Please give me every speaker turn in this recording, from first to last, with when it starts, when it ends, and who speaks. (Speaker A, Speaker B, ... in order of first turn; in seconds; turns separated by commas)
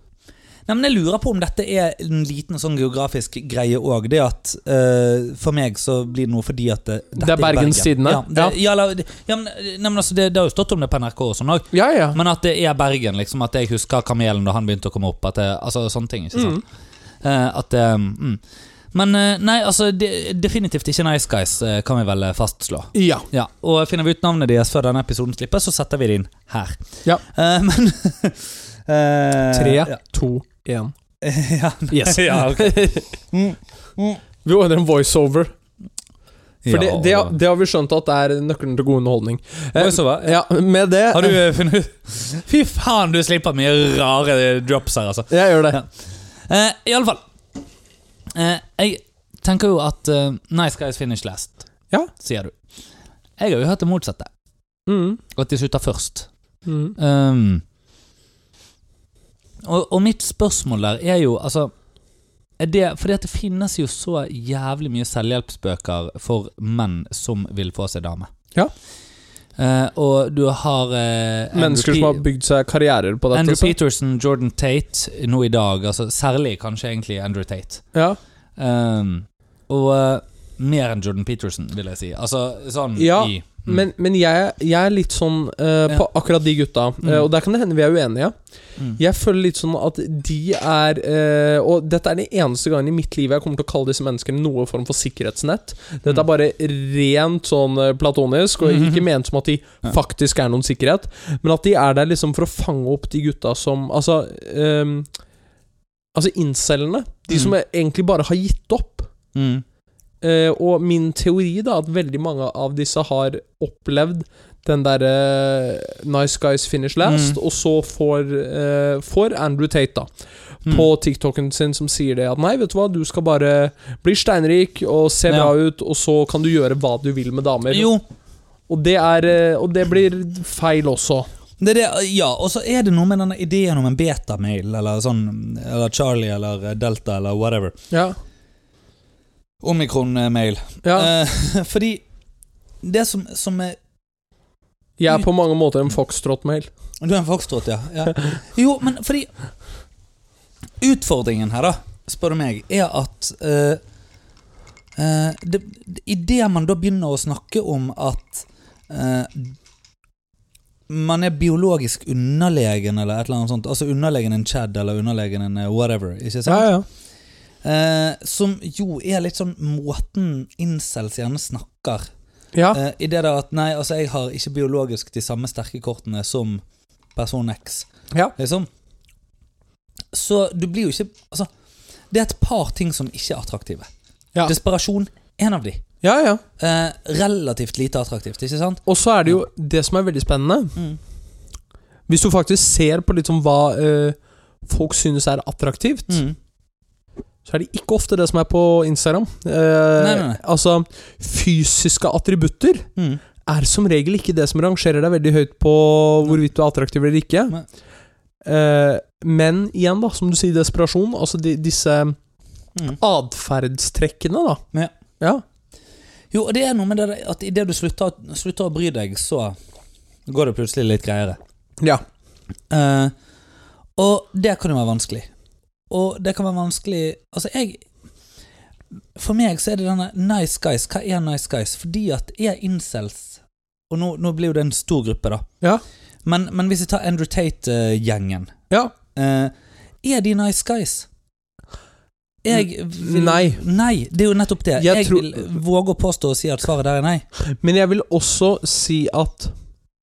Speaker A: 0.7-16.6, Speaker B: 7.2-8.5, Speaker B: 11.7-12.2, Speaker B: 16.3-16.6, Speaker A: 17.2-18.4, Speaker A: 18.9-29.9, Speaker B: 22.9-23.3, Speaker B: 29.5-30.9, Speaker A: 31.2-34.2, Speaker B: 31.9-33.1, Speaker B: 34.4-35.5, Speaker A: 36.6-37.3, Speaker B: 36.7-41.4, Speaker A: 39.8-40.4, Speaker A: 41.1-45.9, Speaker B: 45.3-45.8, Speaker A: 46.5-47.2, Speaker A: 48.3-52.5, Speaker A: 53.4-54.3, Speaker B: 54.9-55.2, Speaker A: 55.3-56.3, Speaker B: 56.6-57.0, Speaker A: 57.0-57.6, Speaker A: 59.6-61.7, Speaker A: 62.6-68.3, Speaker A: 69.6-72.2, Speaker B: 71.5-73.7, Speaker A: 73.3-77.8, Speaker A: 78.6-83.8, Speaker B: 83.0-88.3, Speaker B: 88.9-105.1, Speaker A: 98.6-99.0, Speaker B: 106.1-109.1, Speaker A: 109.3-109.6, Speaker B: 110.2-120.1, Speaker A: 117.0-117.4, Speaker B: 120.6-127.9, Speaker A: 125.3-125.5, Speaker A: 127.7-128.0, Speaker B: 128.7-131.3, Speaker A: 131.6-137.7, Speaker B: 137.9-138.2, Speaker A: 139.6-142.0, Speaker B: 140.8-141.1, Speaker A: 142.8-143.8, Speaker B: 145.0-146.7, Speaker A: 147.0-149.3, Speaker A: 150.8-153.8, Speaker A: 154.9-159.6, Speaker A: 160.9-166.7, Speaker B: 166.5-166.8, Speaker A: 167.6-172.1, Speaker B: 172.5-172.8, Speaker A: 172.7-176.6, Speaker A: 177.1-178.7, Speaker A: 180.1-181.5, Speaker A: 182.1-183.9, Speaker A: 184.4-185.8, Speaker B: 186.0-186.4, Speaker A: 186.6-189.3, Speaker B: 188.8-190.8, Speaker B: 192.1-196.2, Speaker A: 196.1-196.4, Speaker B: 197.4-202.9, Speaker A: 200.0-200.4, Speaker A: 203.0-203.2, Speaker B: 203.4-207.6, Speaker B: 208.4-212.2, Speaker B: 212.9-214.6, Speaker A: 216.3-219.6, Speaker A: 220.3-221.4, Speaker A: 222.7-223.1, Speaker A: 224.0-225.3, Speaker A: 225.9-227.8, Speaker A: 229.1-235.4, Speaker A: 236.2-238.6, Speaker A: 239.1-241.1, Speaker A: 242.4-247.2, Speaker B: 242.5-243.6, Speaker B: 244.8-245.5, Speaker B: 247.4-249.5